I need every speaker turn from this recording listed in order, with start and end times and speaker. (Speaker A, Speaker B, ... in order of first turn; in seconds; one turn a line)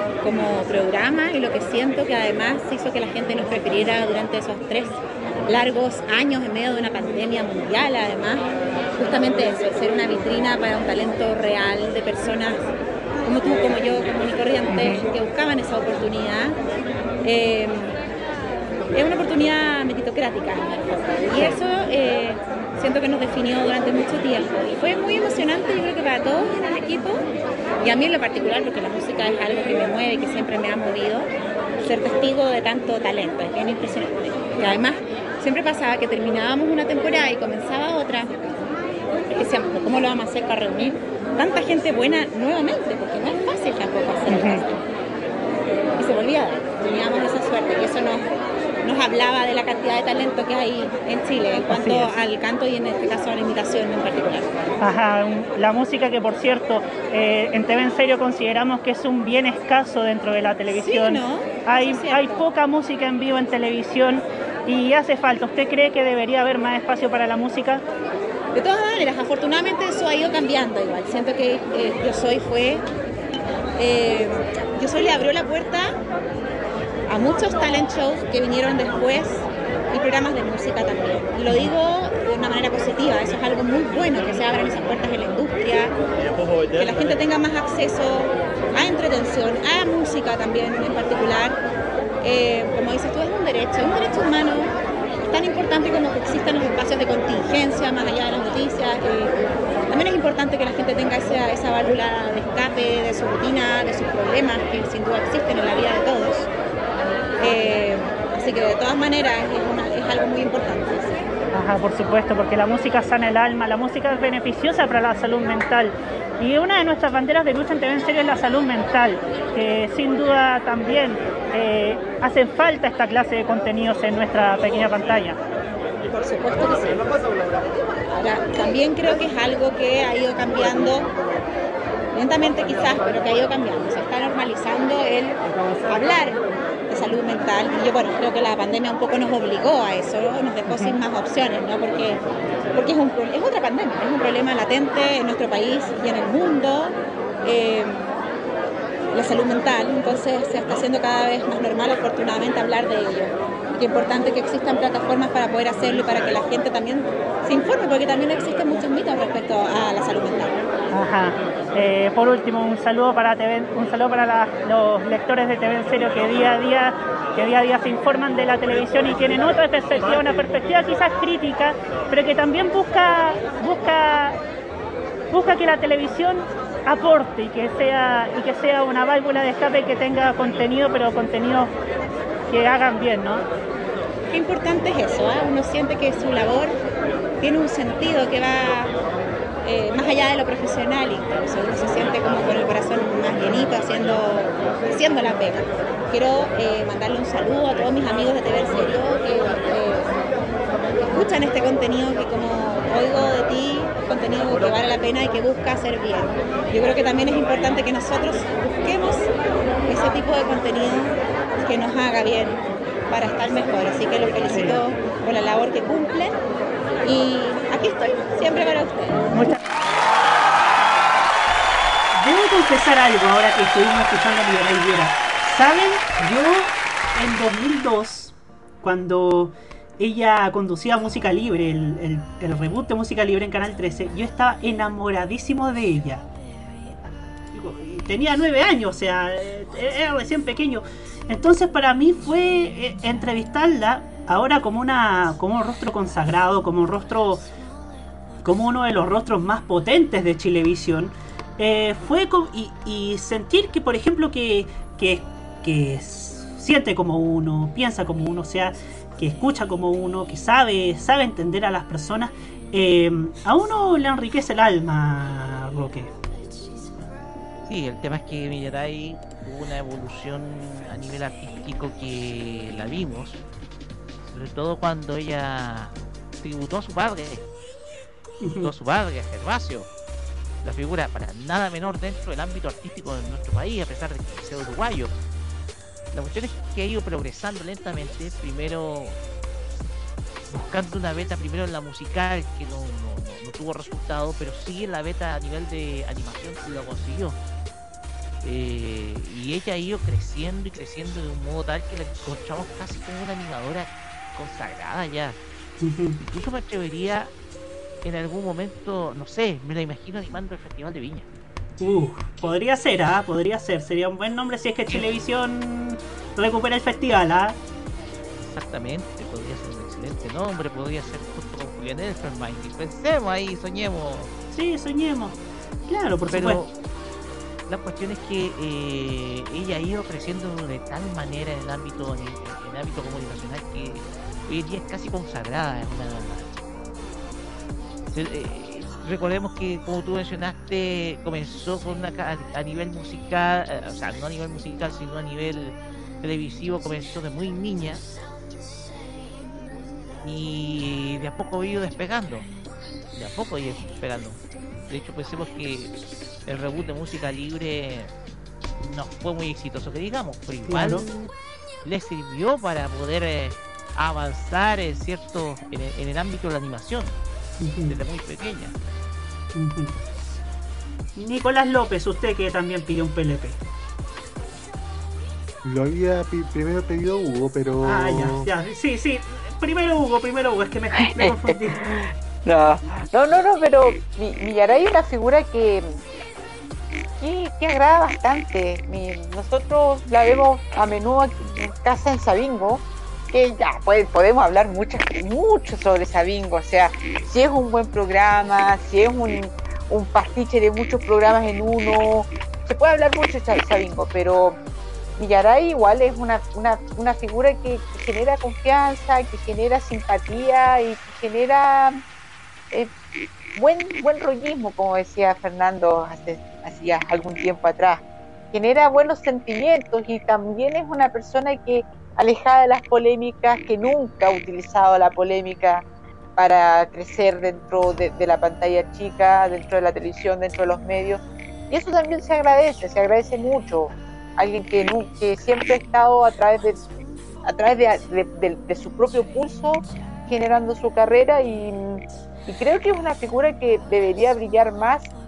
Speaker A: 0.2-12.6
Speaker A: 13.2-16.6
Speaker B: 14.7-15.1
Speaker A: 17.2-17.9
Speaker A: 18.9-27.2
Speaker A: 27.8-31.3
Speaker A: 31.8-38.3
Speaker A: 39.3-44.8
Speaker B: 44.3-44.6
Speaker A: 46.0-48.2
Speaker A: 48.8-54.5
Speaker B: 51.7-52.1
Speaker B: 54.8-67.8
Speaker A: 60.7-62.5
Speaker A: 68.5-72.8
Speaker A: 73.8-75.9
Speaker A: 77.1-86.0
Speaker A: 86.7-91.6
Speaker A: 92.2-106.5
Speaker A: 107.4-111.1
Speaker B: 111.5-125.4
Speaker A: 126.2-127.0
Speaker A: 128.1-131.1
Speaker A: 132.1-142.2
Speaker A: 142.7-148.1
Speaker A: 149.1-160.6
Speaker B: 160.9-174.4
Speaker B: 175.3-181.7
Speaker B: 182.5-183.4
Speaker A: 184.3-186.8
Speaker A: 187.4-188.9
Speaker A: 189.6-200.2
Speaker A: 201.0-209.3
Speaker A: 209.9-216.4
Speaker B: 214.5-214.8
Speaker A: 217.0-219.5
Speaker B: 222.2-236.2
Speaker B: 237.5-247.4
Speaker B: 248.4-266.1
Speaker C: 267.6-273.4
Speaker C: 274.3-277.4
Speaker B: 278.4-278.7
Speaker C: 278.6-279.9
Speaker C: 280.6-285.1
Speaker C: 286.1-289.1
Speaker C: 290.5-297.4
Speaker C: 298.4-305.4
Speaker B: 305.8-306.2
Speaker C: 306.2-307.3
Speaker C: 308.0-311.2
Speaker B: 311.8-317.6
Speaker C: 318.4-324.3
Speaker B: 324.5-326.6
Speaker C: 326.3-326.7
Speaker C: 327.7-336.5
Speaker C: 338.1-348.0
Speaker C: 350.2-352.5
Speaker C: 353.1-355.9
Speaker C: 356.4-358.1
Speaker C: 358.8-361.3
Speaker B: 360.7-361.0
Speaker C: 361.8-367.1
Speaker B: 367.6-368.0
Speaker C: 367.9-368.7
Speaker B: 369.5-369.9
Speaker B: 371.2-373.6
Speaker D: 375.6-378.5
Speaker B: 377.8-381.9
Speaker E: 381.0-386.0
Speaker E: 387.2-404.6
Speaker E: 405.2-412.0
Speaker E: 413.6-425.8
Speaker E: 426.4-436.8
Speaker E: 437.4-445.1